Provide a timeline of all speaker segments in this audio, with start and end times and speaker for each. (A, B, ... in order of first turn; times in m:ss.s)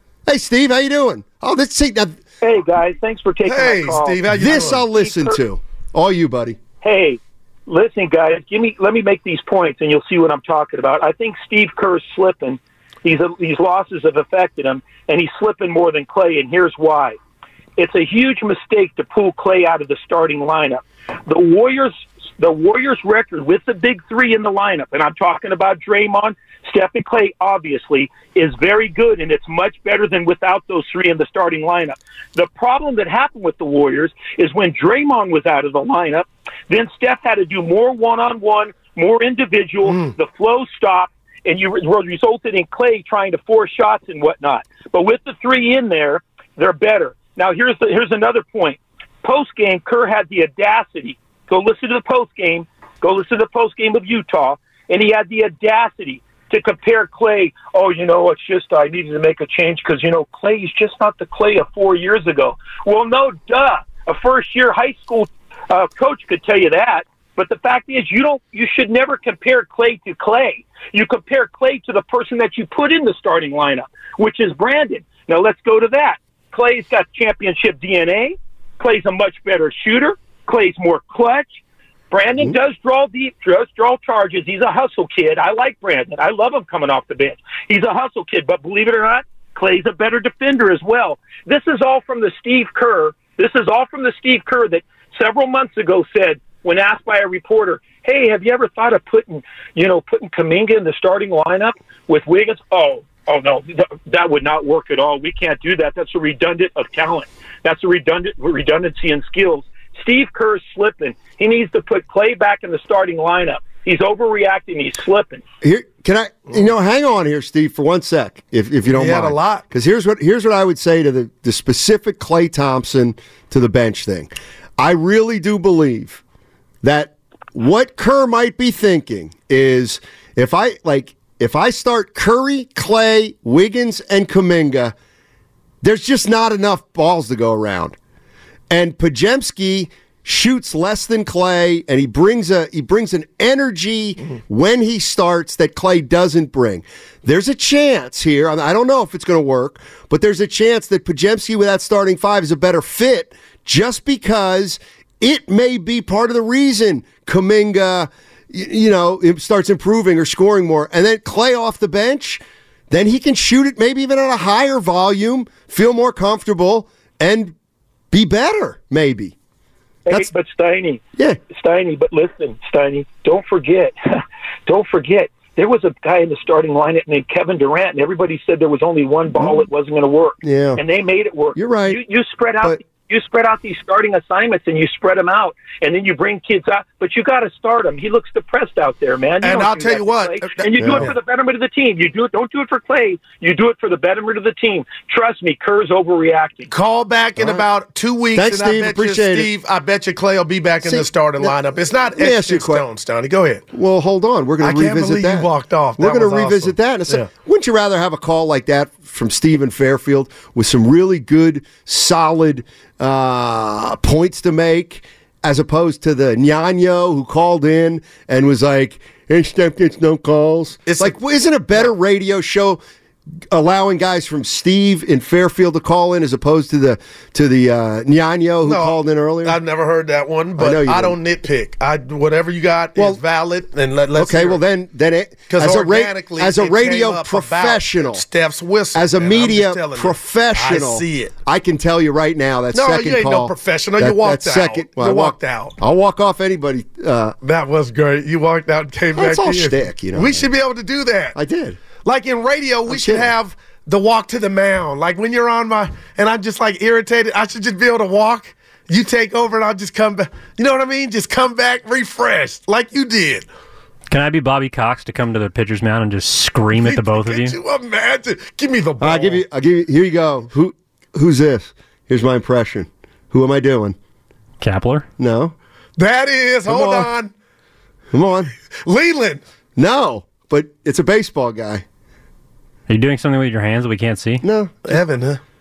0:00.3-0:02.2 A
0:02.4-0:05.4 B
0:03.5-0:04.9 C
0:04.3-0:06.6 A
0:06.8-0:17.2 B
0:17.8-1:21.6 B
0:39.8-0:40.1 C
1:22.1-1:55.4 B
1:55.6-2:06.2 A
1:58.9-1:59.6 C
2:06.8-2:15.0 A
2:15.8-2:18.0 A
2:18.7-2:47.6 A
2:48.1-2:49.4 A
2:50.1-3:16.7 B
3:00.4-3:00.8 A
3:01.6-3:02.0 A
3:09.4-3:11.1 C
3:10.8-3:11.1 A
3:16.7-3:23.6 C
3:17.4-3:17.6 A
3:18.3-3:19.5 A
3:20.8-3:21.5 A
3:22.1-3:22.8 A
3:23.7-3:42.8 A
3:24.6-3:27.3 C
3:40.9-3:41.2 C
3:43.5-3:49.6 A
3:48.7-3:54.6 C
3:50.6-3:51.2 A
3:54.2-3:58.2 A
3:55.5-4:01.3 C
3:58.9-4:07.4 A
4:02.7-4:05.8 C
4:07.4-4:11.4 C
4:09.1-4:10.5 A
4:11.4-4:11.8 A
4:12.0-4:23.5 C
4:12.9-4:13.3 A
4:24.1-4:27.6 D
4:26.8-4:29.4 C
4:29.0-4:34.0 A
4:34.6-4:35.1 D
4:35.2-4:35.6 A
4:36.0-4:37.3 C
4:36.7-4:37.1 A
4:38.1-4:38.5 A
4:38.9-4:39.4 C
4:39.8-4:41.8 A
4:42.9-4:44.4 D
4:44.4-4:45.0 A
4:44.8-4:45.4 C